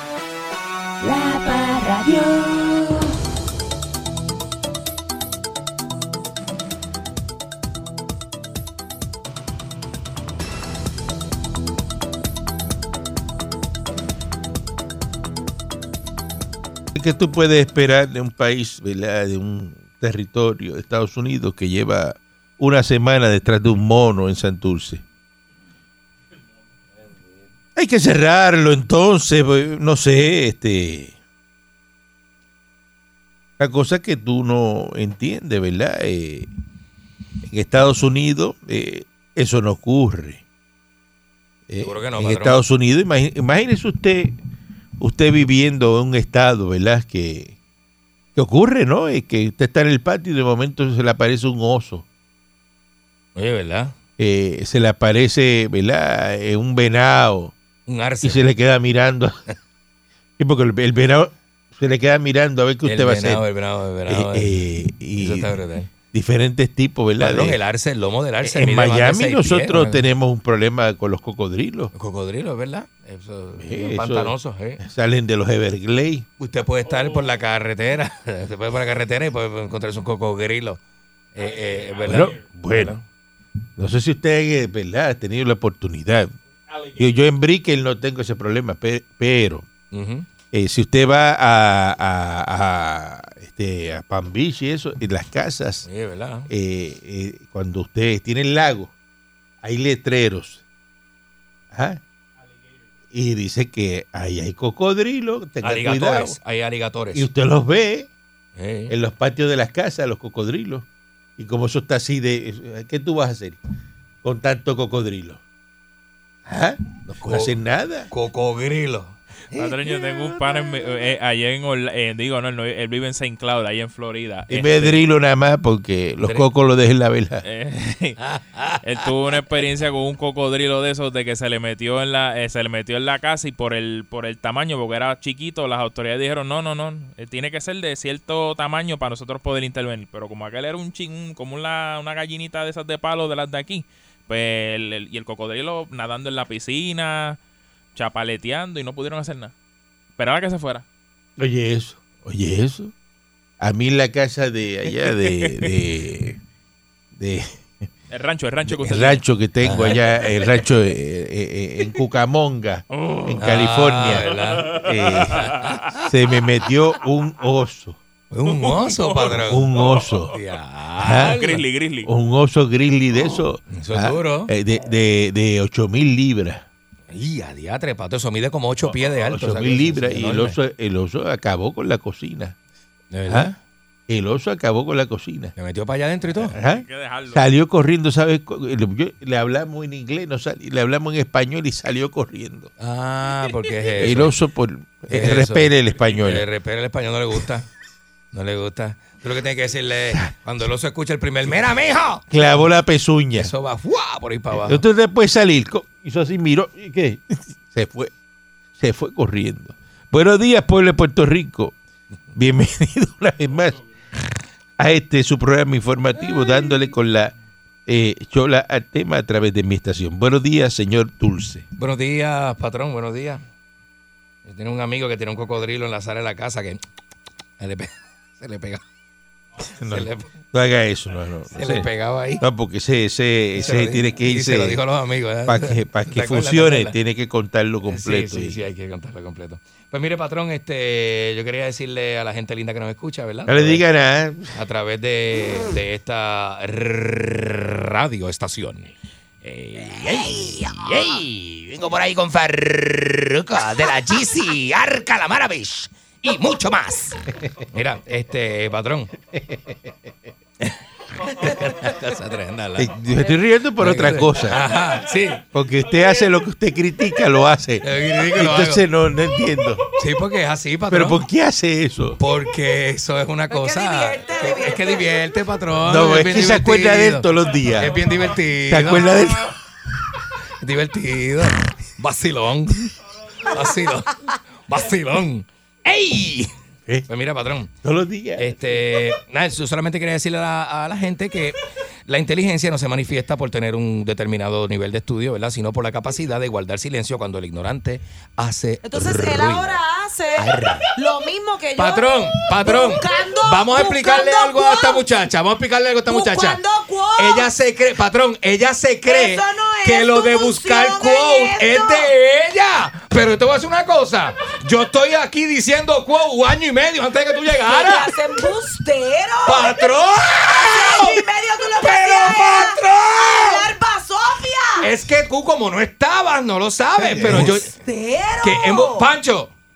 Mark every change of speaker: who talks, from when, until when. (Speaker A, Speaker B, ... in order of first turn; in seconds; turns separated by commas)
Speaker A: 16.9-25.0, Speaker A: 27.8-31.2, Speaker A: 33.6-36.5, Speaker A: 37.4-40.4, Speaker A: 41.7-44.4, Speaker B: 41.8-42.6, Speaker A: 45.0-47.6, Speaker A: 48.4-52.0, Speaker B: 53.4-53.9, Speaker A: 54.2-57.5, Speaker B: 57.9-58.4, Speaker A: 58.2-59.4, Speaker A: 60.4-63.4, Speaker B: 62.8-64.6, Speaker A: 64.1-65.5, Speaker B: 65.2-65.9, Speaker A: 66.1-67.6, Speaker B: 67.2-70.1, Speaker A: 68.4-71.9, Speaker B: 71.9-74.8, Speaker A: 73.6-76.3, Speaker B: 76.4-80.8, Speaker B: 81.3-83.0, Speaker A: 82.0-83.0, Speaker A: 83.8-86.3, Speaker A: 87.0-89.7, Speaker B: 89.9-90.3, Speaker A: 90.5-95.8, Speaker B: 95.9-96.5, Speaker A: 96.5-98.9, Speaker A: 99.6-100.6, Speaker A: 101.7-102.0, Speaker A: 103.1-106.4, Speaker B: 105.6-107.3, Speaker A: 107.1-108.1, Speaker B: 108.6-109.0, Speaker A: 108.9-110.9, Speaker A: 111.4-113.6, Speaker A: 114.2-115.4, Speaker A: 116.5-118.1, Speaker B: 117.1-117.5, Speaker B: 118.1-119.7, Speaker C: 119.5-125.0, Speaker D: 120.4-120.9, Speaker A: 124.5-127.4, Speaker C: 127.4-128.2, Speaker B: 128.2-128.8, Speaker C: 128.8-147.4, Speaker C: 147.9-149.5, Speaker C: 150.2-150.8, Speaker A: 151.4-152.9, Speaker A: 153.6-156.4, Speaker A: 157.2-157.9, Speaker C: 158.1-159.2, Speaker B: 158.7-159.1, Speaker A: 158.8-168.0, Speaker B: 159.6-160.1, Speaker C: 162.9-163.4, Speaker B: 163.4-164.8, Speaker C: 164.6-165.6, Speaker B: 165.3-166.0, Speaker B: 168.3-169.7, Speaker C: 168.5-169.4, Speaker A: 169.4-170.3, Speaker B: 170.3-171.6, Speaker A: 171.0-176.7, Speaker C: 171.2-172.1, Speaker B: 173.7-174.5, Speaker B: 177.1-180.6, Speaker A: 179.2-182.6, Speaker B: 183.1-183.6, Speaker A: 183.3-183.5, Speaker A: 184.1-185.5, Speaker B: 185.6-186.6, Speaker A: 186.3-192.7, Speaker C: 186.6-187.4, Speaker B: 192.8-194.3, Speaker A: 194.0-196.5, Speaker B: 195.1-197.7, Speaker B: 198.3-202.2, Speaker A: 202.3-203.5, Speaker B: 203.4-204.8, Speaker A: 204.5-208.1, Speaker A: 208.8-211.8, Speaker A: 212.3-213.8, Speaker A: 214.8-217.3, Speaker A: 217.9-221.7, Speaker B: 221.8-223.4, Speaker B: 224.4-226.8, Speaker B: 227.6-228.8, Speaker A: 229.8-231.9, Speaker B: 229.9-230.3, Speaker B: 231.6-232.4, Speaker A: 232.4-234.8, Speaker B: 233.6-236.9, Speaker A: 235.5-238.6, Speaker B: 237.9-243.8, Speaker A: 243.5-244.5, Speaker B: 244.5-259.1, Speaker B: 261.3-262.9, Speaker A: 262.8-264.7, Speaker B: 263.8-265.4, Speaker A: 265.5-269.8, Speaker B: 267.8-268.9, Speaker B: 270.0-271.2, Speaker A: 270.9-272.2, Speaker B: 272.2-279.1, Speaker D: 273.5-275.1, Speaker A: 275.8-279.5, Speaker B: 280.6-282.9, Speaker B: 283.4-286.5, Speaker B: 287.1-287.7, Speaker A: 287.8-288.8, Speaker B: 288.4-299.8, Speaker D: 298.8-305.1, Speaker B: 300.4-300.9, Speaker B: 301.8-306.6, Speaker D: 306.1-307.5, Speaker B: 307.2-318.1, Speaker D: 309.1-312.1, Speaker D: 317.6-324.9, Speaker B: 319.5-321.2, Speaker B: 321.8-323.7, Speaker B: 324.8-327.7, Speaker A: 327.0-327.6, Speaker D: 327.3-329.1, Speaker B: 328.4-329.5